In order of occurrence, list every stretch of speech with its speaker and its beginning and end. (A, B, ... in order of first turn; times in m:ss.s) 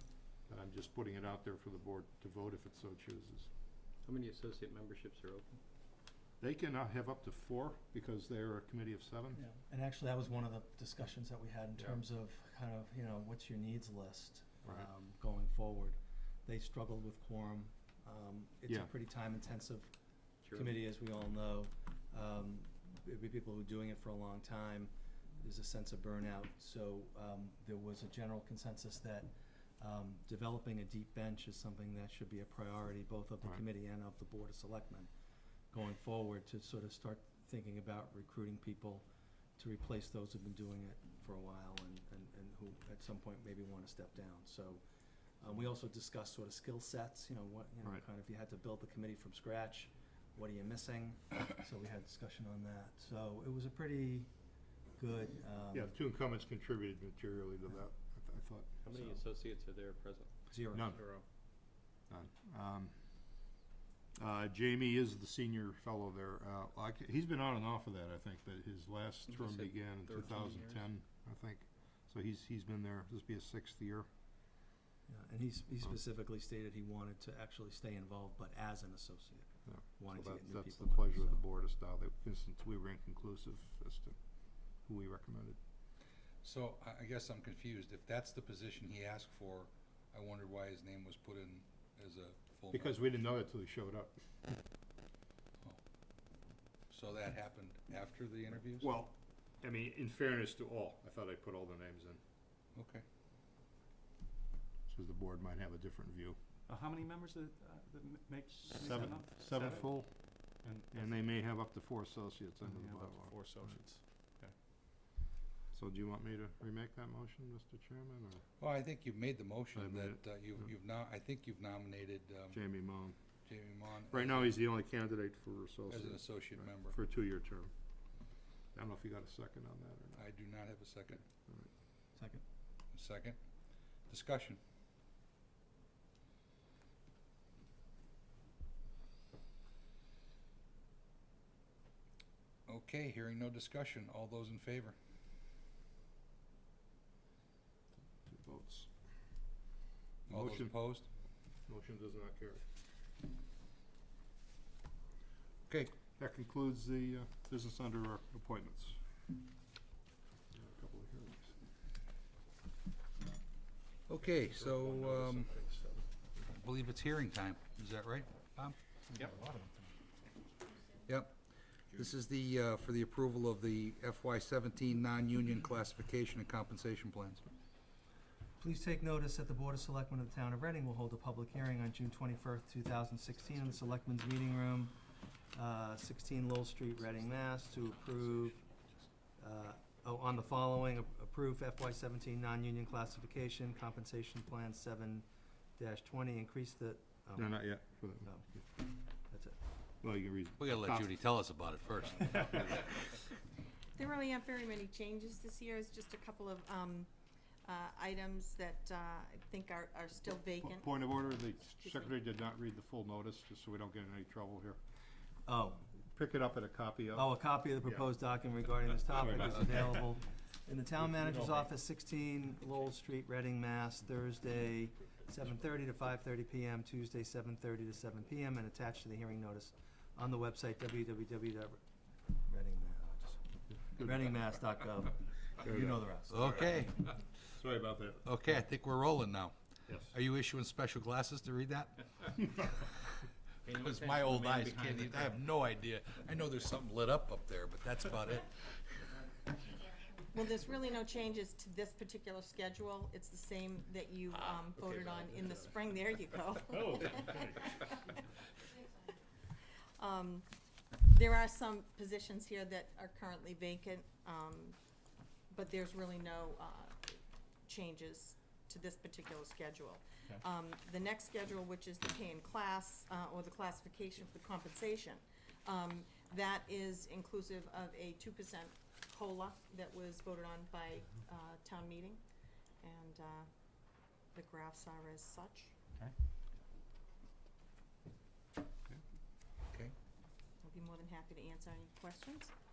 0:00.5-0:03.5 A
0:04.0-0:05.6 B
0:06.4-0:09.4 A
0:09.3-0:19.9 C
0:20.5-0:35.1 C
0:35.7-0:39.0 C
0:39.6-0:44.8 C
0:45.4-0:54.3 C
0:55.0-0:55.9 C
0:55.7-0:58.7 A
0:58.8-1:00.3 B
1:00.5-1:01.0 C
1:00.7-1:01.0 A
1:00.9-1:01.2 B
1:02.1-1:02.9 A
1:04.2-1:14.1 A
1:09.4-1:09.7 D
1:10.4-1:10.8 D
1:15.1-1:21.4 C
1:19.7-1:24.2 A
1:24.8-1:25.6 A
1:26.4-1:33.0 E
1:32.7-1:34.5 A
1:36.9-1:38.9 E
1:38.8-1:42.2 A
1:42.7-1:43.0 E
1:44.9-1:46.4 A
1:46.7-1:49.9 D
1:48.8-1:50.1 A
1:50.6-1:51.0 D
1:50.9-1:53.4 A
1:52.6-1:54.5 D
1:55.7-1:58.4 A
1:58.6-2:02.6 E
1:59.7-2:00.2 A
2:02.5-2:03.2 A
2:03.4-2:04.6 E
2:04.1-2:07.7 A
2:05.9-2:07.0 E
2:08.7-2:10.2 A
2:10.2-2:11.2 E
2:12.2-2:12.4 C
2:12.9-2:13.4 E
2:14.1-2:14.6 E
2:22.7-2:25.0 E
2:28.2-2:28.9 A
2:30.3-2:30.7 A
2:30.3-2:31.1 E
2:31.7-2:32.6 A
2:35.7-2:35.9 E
2:36.2-2:39.0 A
2:40.5-2:41.5 A
2:44.1-2:45.6 E
2:44.8-2:45.4 A
2:46.4-2:48.8 E
2:49.1-2:49.9 C
2:51.0-2:51.4 E
2:51.9-2:57.4 E
2:58.6-3:05.0 C
3:05.5-3:08.6 C
3:09.4-3:15.2 C
3:15.8-3:17.7 C
3:17.4-3:18.3 A
3:18.2-3:18.6 C
3:19.3-3:19.6 C
3:20.0-3:21.1 A
3:20.6-3:23.0 E
3:24.0-3:27.1 F
3:27.6-3:31.0 F
3:30.6-3:34.8 A
3:31.8-3:32.1 F
3:35.4-3:35.8 C
3:36.1-3:37.3 A
3:37.1-3:51.8 C
3:39.2-3:39.8 A
3:41.2-3:41.6 A
3:52.4-3:56.6 C
3:55.6-3:56.0 A
3:56.1-3:57.1 E
3:57.5-3:58.2 A
3:58.2-3:59.5 E
3:59.9-4:00.1 A
4:00.1-4:08.5 E
4:03.9-4:04.6 D
4:04.6-4:05.0 B
4:10.3-4:17.9 F
4:20.0-4:20.4 F
4:21.0-4:24.8 F
4:25.5-4:42.2 F
4:42.8-4:43.5 F
4:44.3-4:45.7 F
4:50.6-4:52.5 F